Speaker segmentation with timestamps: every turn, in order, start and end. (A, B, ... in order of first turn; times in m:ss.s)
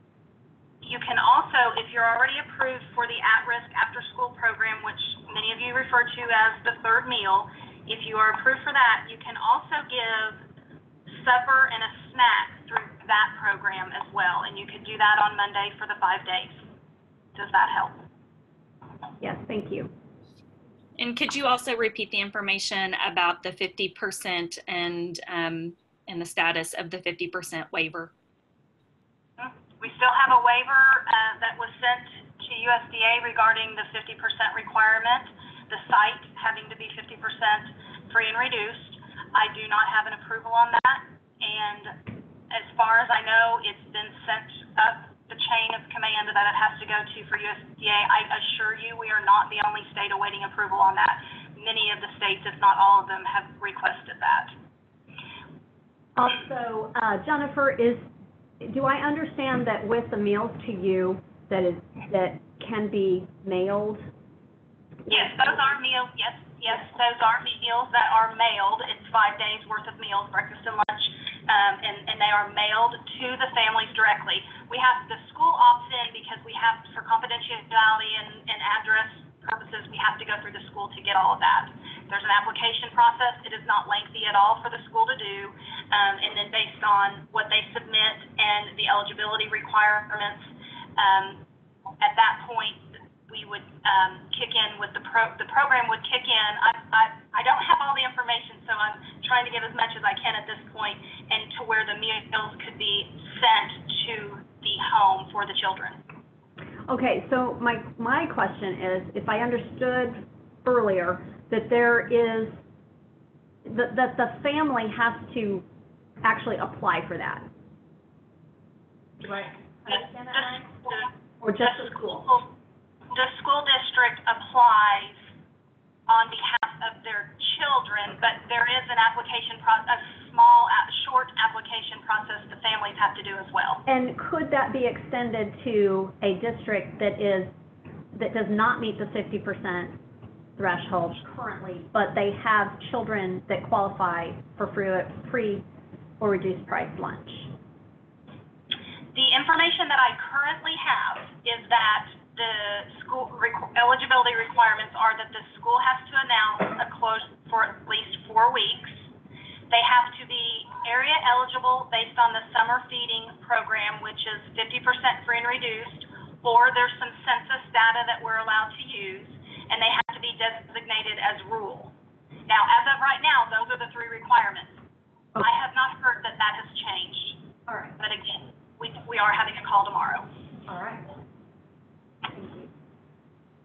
0:00.8-0:10.4 A
0:11.1-0:16.6 A
0:17.4-0:18.0 A
0:19.2-0:19.9 B
0:21.0-0:28.1 C
0:29.4-0:54.5 A
0:56.2-0:58.1 B
0:58.6-1:04.1 B
1:05.1-1:05.5 B
1:05.1-1:31.4 A
1:32.0-1:46.0 A
1:46.9-1:52.6 B
1:53.6-1:55.6 B
1:56.2-1:57.5 B
1:59.2-2:02.3 B
2:02.2-2:02.5 A
2:03.1-2:05.2 A
2:06.1-2:13.8 A
2:13.9-2:17.5 B
2:18.1-2:20.0 B
2:20.6-2:25.7 B
2:26.2-2:27.5 B
2:29.1-2:39.0 A
2:39.7-2:51.9 A
2:52.5-2:54.8 A
2:55.4-2:57.4 A
2:57.7-2:58.0 B
2:58.0-3:00.3 A
3:00.7-3:01.1 B
3:02.3-3:02.7 B